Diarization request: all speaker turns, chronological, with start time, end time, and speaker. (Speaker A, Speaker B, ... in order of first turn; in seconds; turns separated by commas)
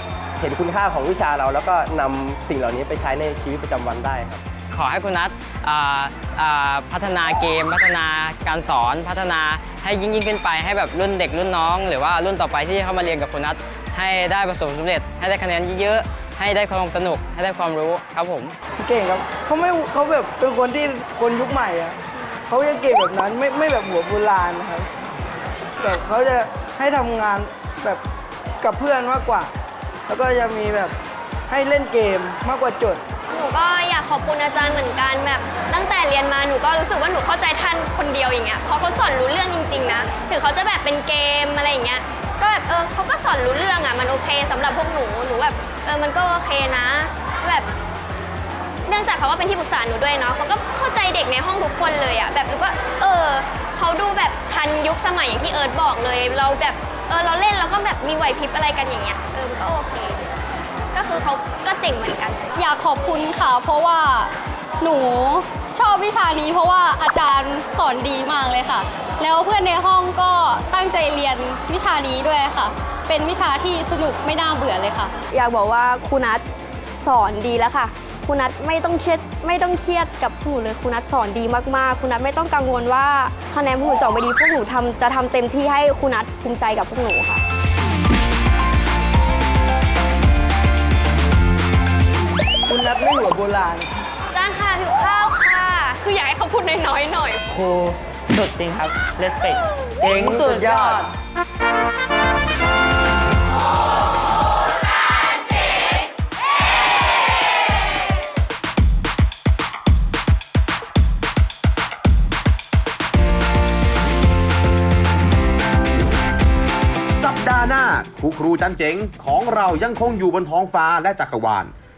Speaker A: 0.4-4.4, Speaker B: 4.7-18.6, Speaker C: 18.8-22.0, Speaker C: 22.5-24.9, Speaker C: 25.8-28.0, Speaker C: 28.6-29.5, Speaker C: 30.1-30.9, Speaker C: 31.5-33.0, Speaker D: 33.3-47.7, Speaker D: 48.9-60.3, Speaker D: 60.9-62.5, Speaker E: 62.5-75.1, Speaker F: 75.3-76.4, Speaker F: 77.0-87.4, Speaker C: 92.7-93.9, Speaker D: 94.3-97.4, Speaker G: 97.5-99.6, Speaker C: 100.0-101.1, Speaker H: 117.2-121.7